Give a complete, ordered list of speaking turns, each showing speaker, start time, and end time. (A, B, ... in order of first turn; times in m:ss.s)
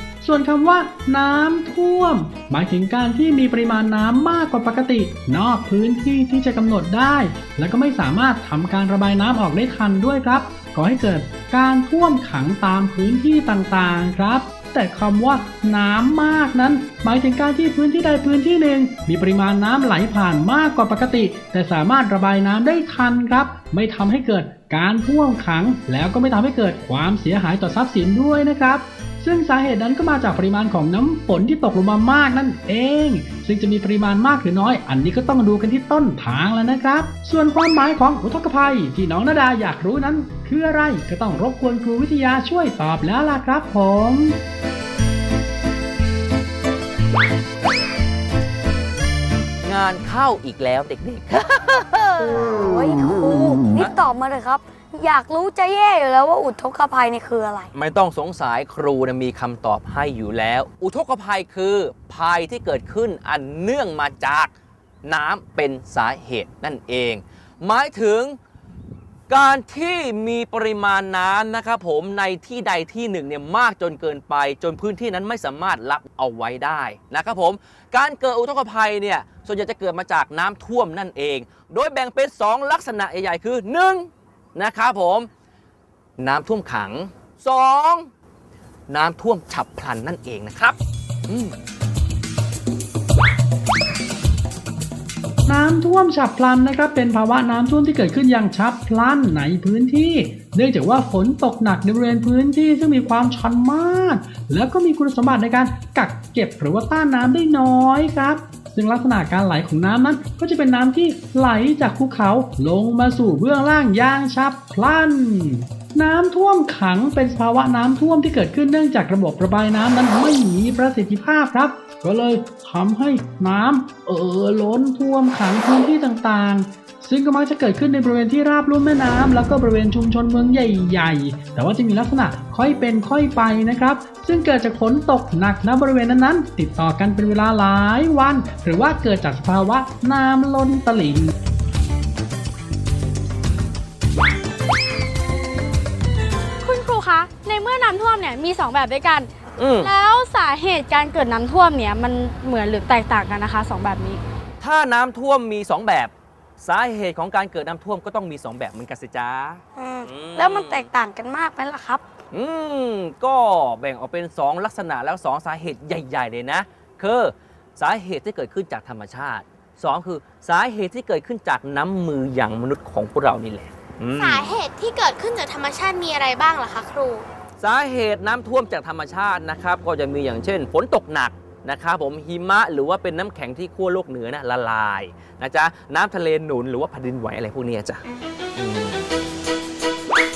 0:00.2-0:44.4 A
0:49.6-0:52.5 B
0:52.3-0:57.7 C
0:57.7-1:04.5 B
1:05.0-1:08.4 B
1:09.3-1:25.3 B
1:26.2-1:28.1 B
1:28.9-1:30.8 B
1:31.3-1:31.6 B
1:35.5-2:21.3 A
2:26.6-2:29.3 D
2:29.6-2:29.9 B
2:29.8-2:34.2 D
2:34.6-2:40.9 B
2:39.8-2:42.0 C
2:42.3-2:54.6 B
2:54.2-2:57.3 E
2:57.6-3:08.0 B
3:08.6-3:09.1 B